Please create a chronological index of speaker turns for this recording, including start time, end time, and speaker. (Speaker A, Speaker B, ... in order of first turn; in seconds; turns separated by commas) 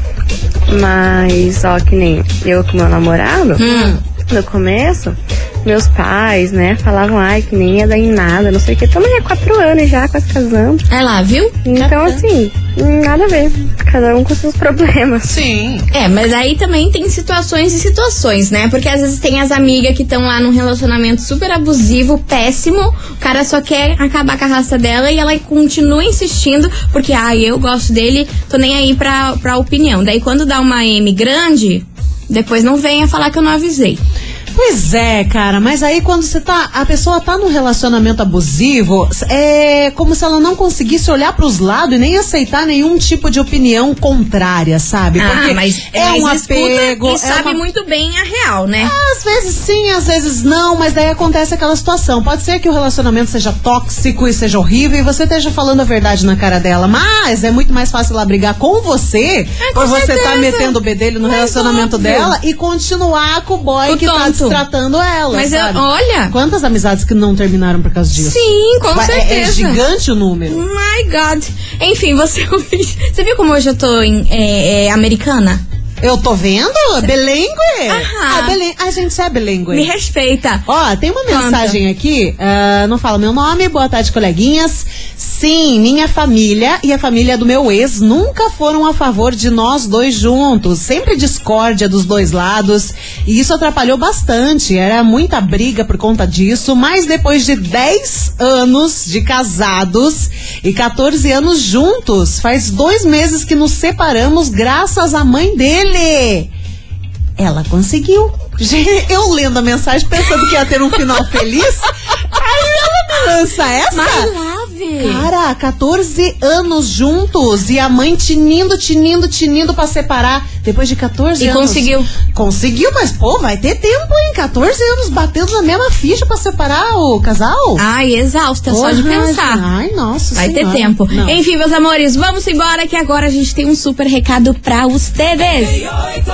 Speaker A: 0.7-10.8, Speaker B: 3.6-4.0, Speaker C: 3.6-4.0, Speaker B: 10.9-11.5, Speaker A: 11.6-15.3, Speaker C: 11.7-12.2, Speaker C: 15.2-15.8, Speaker B: 15.9-34.0, Speaker C: 34.5-47.6, Speaker B: 45.2-48.9, Speaker C: 48.8-70.6, Speaker B: 59.6-62.3, Speaker B: 63.9-64.6, Speaker B: 65.3-66.3, Speaker B: 68.2-69.8, Speaker B: 70.5-75.6, Speaker C: 76.0-79.9, Speaker B: 77.9-78.6, Speaker B: 79.7-80.7, Speaker C: 80.7-106.5, Speaker B: 81.3-81.8, Speaker C: 107.4-114.3, Speaker B: 113.9-115.3, Speaker C: 115.0-127.8, Speaker B: 121.4-122.1, Speaker B: 127.8-129.6, Speaker C: 128.7-131.4, Speaker B: 130.3-135.8